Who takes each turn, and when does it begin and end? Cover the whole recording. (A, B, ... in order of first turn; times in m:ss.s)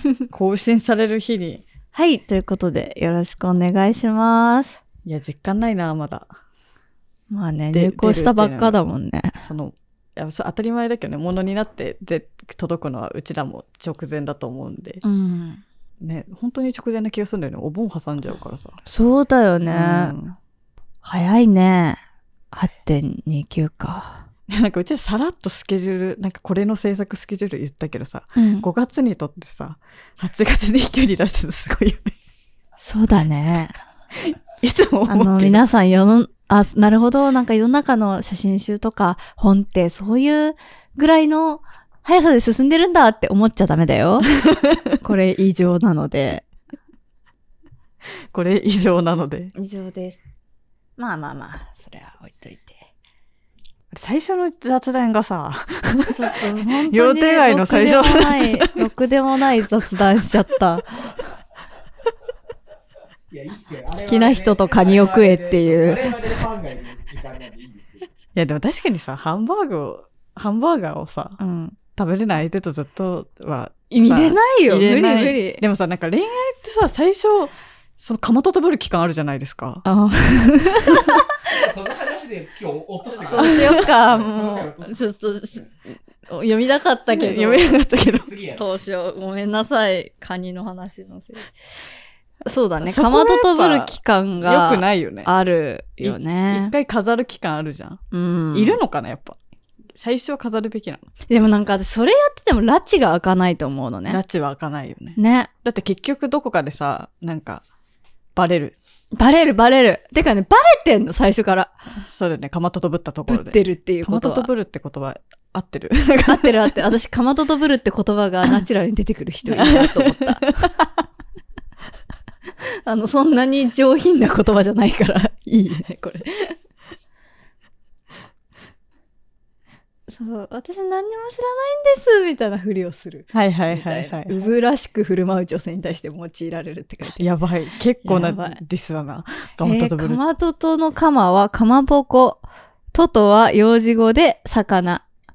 0:00.3-0:01.6 A
0:01.9-0:04.8 B
0:05.0-0:06.3 A
0:07.3-0:09.4 B
0:07.7-0:08.8 A
0:09.4-0:15.0 A
0:15.0-0:15.6 B
0:16.0-0:18.8 A
0:18.8-0:20.2 B
0:19.7-0:20.4 A
0:21.0-0:22.0 B
0:22.5-0:24.3 B
0:24.5-0:32.2 A
0:28.4-0:28.7 B
0:32.8-0:33.8 B
0:34.3-0:35.6 A
0:35.1-0:44.3 B
0:44.4-0:44.9 A
0:45.0-0:46.4 B
0:48.3-0:49.5 A
0:49.5-0:50.2 B
0:51.0-0:52.8 B
0:53.9-0:58.8 A
0:56.1-1:01.0 B
1:03.3-1:08.1 C
1:03.9-1:06.1 B
1:08.3-1:11.4 A
1:11.4-1:11.8 B
1:11.9-1:19.8 A
1:13.9-1:15.6 B
1:19.8-1:21.5 B
1:21.4-1:25.7 C
1:23.1-1:25.6 B
1:23.2-1:23.8 A
1:26.3-1:27.8 B
1:27.1-1:28.3 A
1:27.9-1:28.8 C
1:28.6-1:31.5 B
1:32.4-1:36.7 B
1:32.8-1:35.3 A
1:36.0-1:38.0 A
1:38.1-1:38.8 B
1:38.5-1:39.4 A
1:39.9-1:41.0 A
1:41.3-1:44.2 B
1:44.1-1:47.6 A
1:45.2-1:45.5 B
1:48.3-1:48.8 A
1:49.1-1:51.8 B
1:52.0-1:56.7 A
1:53.3-1:54.5 B
1:56.2-2:00.7 B
1:59.5-2:00.8 A
2:02.8-2:06.6 B
2:10.1-2:17.3 B
2:13.3-2:14.3 A
2:17.2-2:20.2 A
2:18.0-2:18.6 B
2:19.6-2:25.0 B